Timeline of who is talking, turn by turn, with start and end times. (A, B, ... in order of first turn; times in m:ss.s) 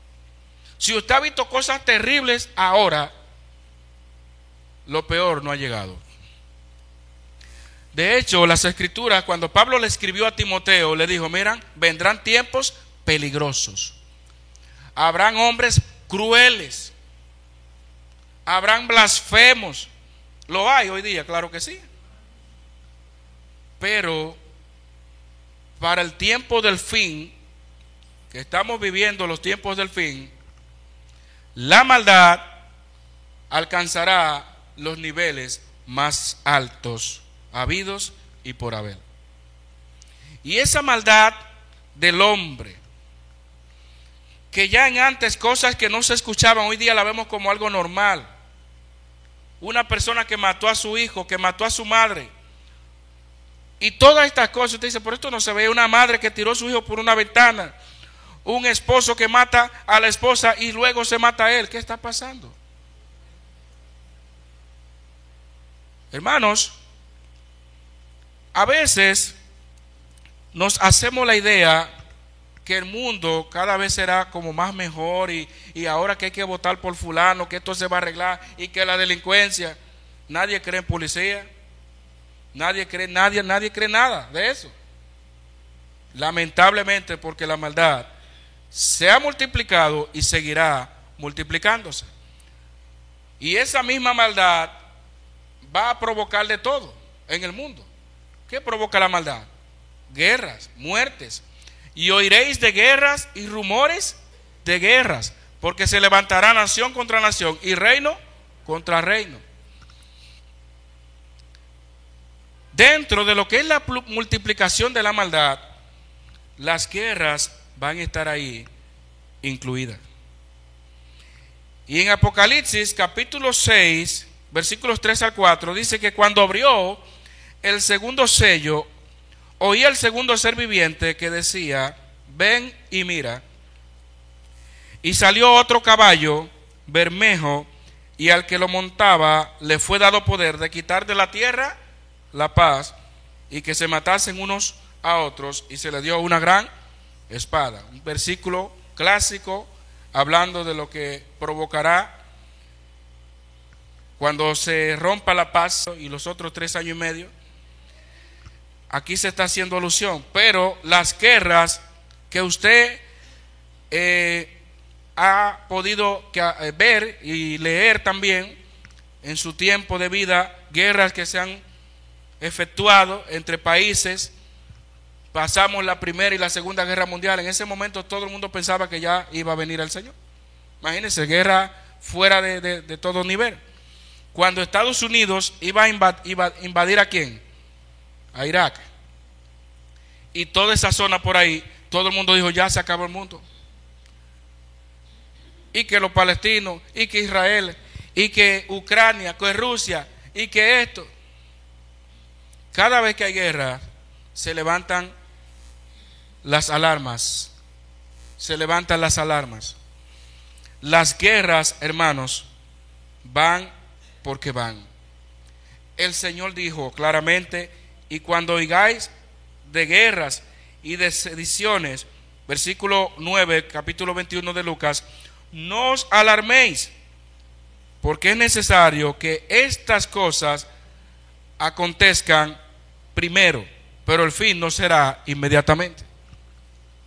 0:00.8-0:03.1 A
0:04.9-0:06.0 A
0:07.9-0:14.0 A
0:15.0-0:16.9 A
0:18.4-0:19.9 A
0:20.5-0:21.8 A
0:23.8-0:24.4 A
0:25.8-0:27.3 A
0:28.3-0:30.3 A
0:31.5-0:32.6 A
0:33.5-0:39.0 A
0:40.4-0:41.4 A
0:41.9-0:42.8 A
0:44.5-0:48.3 A
0:49.6-0:52.3 A
0:53.8-0:57.7 A
0:58.4-1:02.6 A
1:06.1-1:06.8 A
1:08.5-1:09.4 A
1:10.5-1:11.9 A
1:12.6-1:19.8 A
1:20.3-1:21.5 A
1:22.5-1:24.7 A
1:26.1-1:28.1 A
1:28.7-1:32.1 A
1:33.4-1:34.7 A
1:35.6-1:37.9 A
1:38.5-1:39.5 A
1:40.1-1:41.4 A
1:41.9-1:49.4 A
1:52.7-1:55.6 A
1:56.6-1:58.7 A
1:59.4-2:00.0 A
2:01.9-2:07.0 A
2:07.6-2:08.9 A
2:09.6-2:13.4 A
2:15.0-2:21.7 A
2:22.3-2:22.9 A
2:23.5-2:26.7 A
2:27.3-2:32.2 A
2:34.2-2:37.3 A
2:38.9-2:43.0 A
2:43.9-2:44.6 A
2:45.2-2:48.6 A
2:49.2-2:51.6 A
2:52.4-2:54.3 A
2:55.3-3:00.1 A
3:00.8-3:03.6 A
3:04.3-3:07.4 A
3:08.3-3:08.8 A
3:10.3-3:13.4 A
3:15.7-3:21.1 A
3:22.7-3:23.8 A
3:24.3-3:25.1 A
3:26.4-3:27.5 A
3:28.4-3:29.8 A
3:30.8-3:32.5 A
3:33.2-3:33.7 A
3:34.2-3:34.9 A
3:36.0-3:39.1 A
3:39.6-3:46.9 A
3:48.0-3:50.7 A
3:51.6-3:52.6 A
3:53.1-3:56.1 A